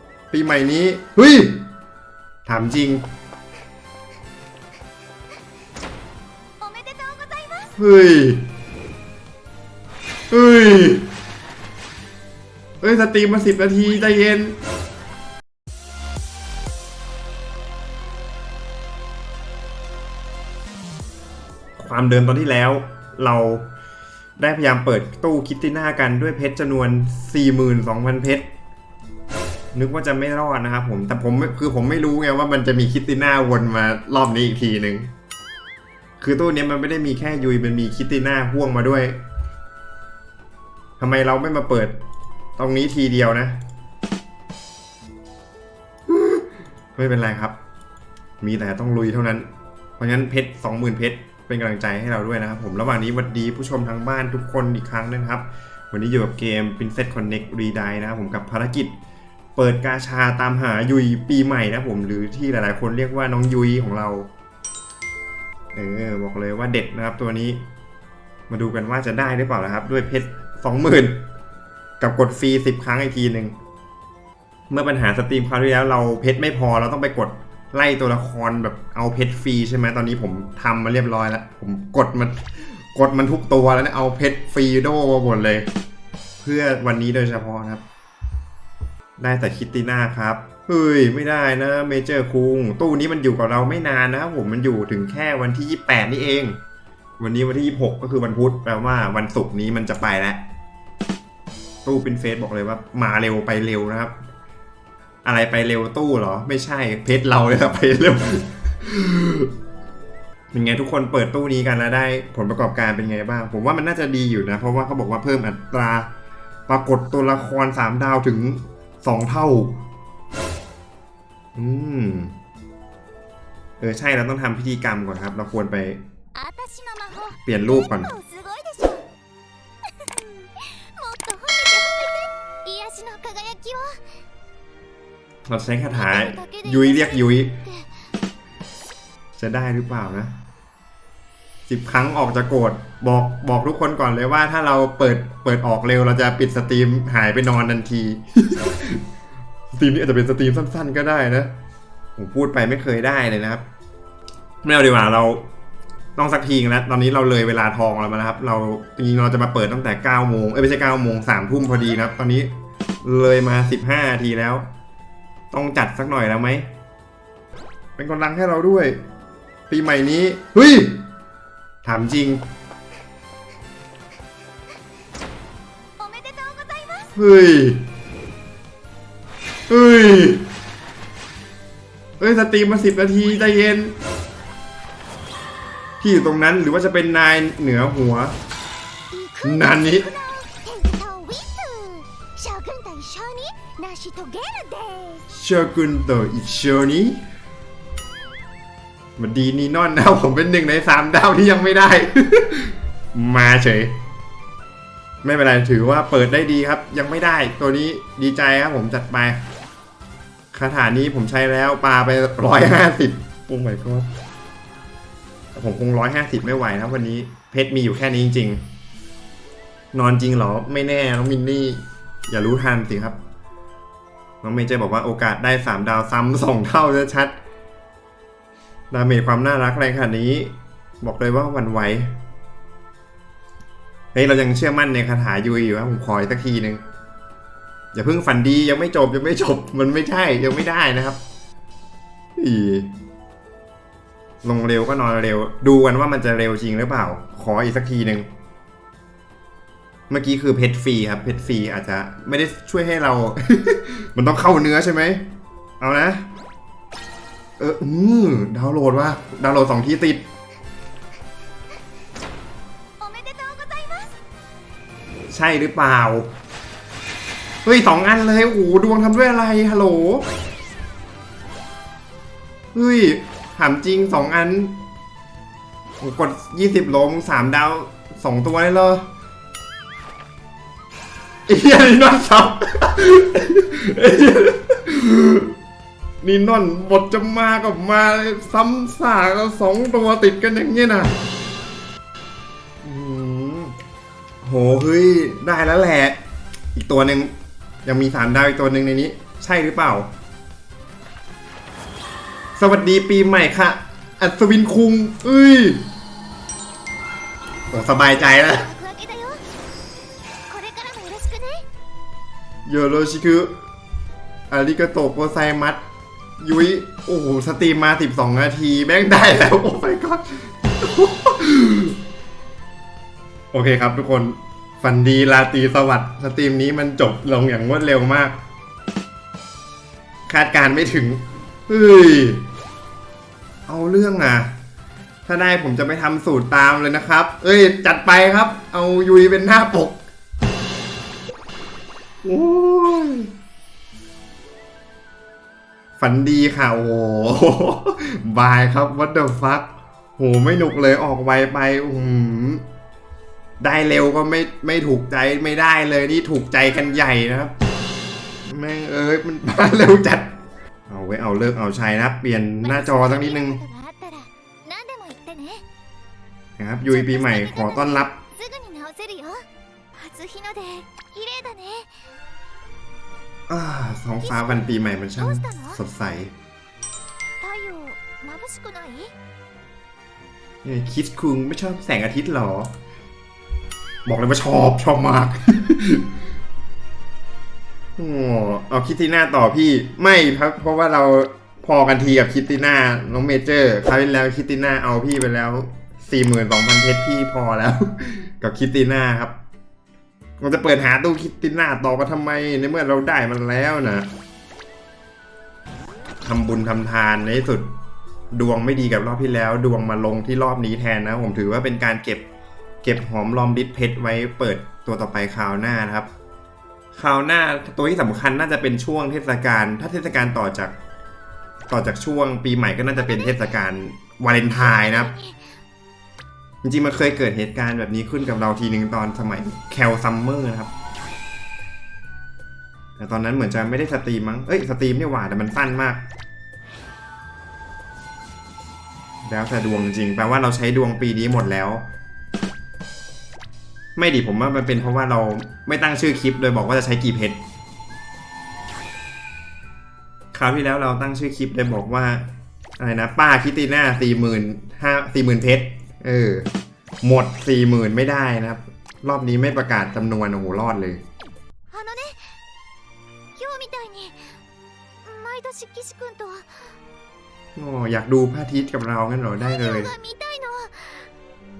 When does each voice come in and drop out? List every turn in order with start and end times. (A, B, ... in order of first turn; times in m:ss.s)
0:00.3-0:01.6 A
0:02.4-0:03.0 A
0:06.6-0:07.7 B
0:07.8-0:08.5 A
0:10.3-0:11.1 A
0:12.8-0:14.6 A
0:21.8-0:23.7 A
0:24.4-0:28.5 A
0:29.7-0:35.1 A
0:36.2-0:39.2 A
0:41.0-0:42.0 A
0:42.6-0:43.6 A
0:46.1-0:47.5 A
0:48.4-0:58.9 A
0:59.6-1:04.3 A
1:05.7-1:07.6 A
1:08.5-1:11.2 A
1:12.0-1:13.5 A
1:14.7-1:25.7 A
1:26.4-1:27.8 A
1:29.2-1:36.6 A
1:37.2-1:40.4 A
1:41.8-1:44.2 A
1:45.2-1:49.5 A
1:50.5-1:56.1 A
1:56.7-1:59.8 A
2:01.6-2:02.3 A
2:03.8-2:06.0 A
2:06.3-2:09.0 B
2:07.4-2:08.1 A
2:09.8-2:14.0 B
2:15.4-2:17.6 A
2:15.9-2:17.9 B
2:19.4-2:20.3 A
2:21.7-2:29.0 A
2:29.7-2:31.5 A
2:32.2-2:33.6 A
2:34.6-2:35.4 A
2:36.2-2:42.5 A
2:43.0-2:44.7 A
2:45.5-2:46.7 A
2:48.0-2:49.0 A
2:49.7-2:51.0 A
2:51.8-2:52.4 A
2:56.0-2:57.1 B
2:57.2-2:57.8 A
2:59.7-3:00.5 A
3:02.2-3:04.0 A
3:06.0-3:08.4 A
3:09.1-3:15.2 B
3:09.4-3:10.1 A
3:15.3-3:17.2 A
3:19.2-3:23.9 A
3:25.2-3:29.4 A
3:30.5-3:34.1 A
3:35.5-3:38.6 A
3:39.9-3:43.2 A
3:44.4-3:47.4 A
3:48.9-3:52.1 A
3:54.1-3:56.8 A
3:57.9-4:01.2 A
4:02.4-4:02.9 A
4:04.4-4:08.3 A
4:10.1-4:15.2 A
4:15.8-4:16.2 A
4:17.6-4:20.2 A
4:23.0-4:24.1 B
4:25.3-4:26.3 A
4:27.6-4:30.3 A
4:32.7-4:34.8 A
4:36.0-4:39.1 A
4:41.5-4:45.6 A
4:46.2-4:51.2 A
4:52.8-4:53.8 A
4:54.4-4:56.2 A
4:56.8-4:57.3 A
4:57.8-5:00.1 A
5:02.6-5:05.9 A
5:07.7-5:08.7 A
5:08.1-5:09.4 B
5:10.5-5:11.6 B
5:12.7-5:13.5 A
5:14.5-5:15.8 A
5:16.4-5:22.0 A
5:23.5-5:28.4 A
5:30.3-5:32.4 A
5:33.7-5:34.5 A
5:35.2-5:40.0 A
5:42.2-5:43.3 A
5:46.0-5:52.6 A
5:53.6-5:57.5 A
5:58.4-6:00.4 A
6:00.9-6:03.6 A
6:02.6-6:05.6 B
6:06.6-6:08.2 A
6:06.9-6:12.0 B
6:13.5-6:16.3 A
6:14.2-6:15.8 B
6:17.4-6:19.1 B
6:20.6-6:22.7 A
6:24.1-6:26.1 A
6:28.0-6:39.4 A
6:40.4-6:44.1 A
6:46.2-6:47.7 A
6:48.3-6:52.2 A
6:52.8-6:56.1 A
6:56.9-7:00.7 A
7:01.7-7:05.1 A
7:03.0-7:03.6 B
7:04.6-7:05.5 B
7:06.6-7:10.7 A
7:13.0-7:16.0 A
7:19.2-7:21.8 A
7:24.0-7:27.4 A
7:30.3-7:32.2 A
7:32.8-7:36.5 A
7:37.0-7:41.0 A
7:41.7-7:42.4 B
7:43.4-7:44.4 B
7:45.0-7:46.8 B
7:47.6-7:49.9 A
7:49.4-7:51.1 B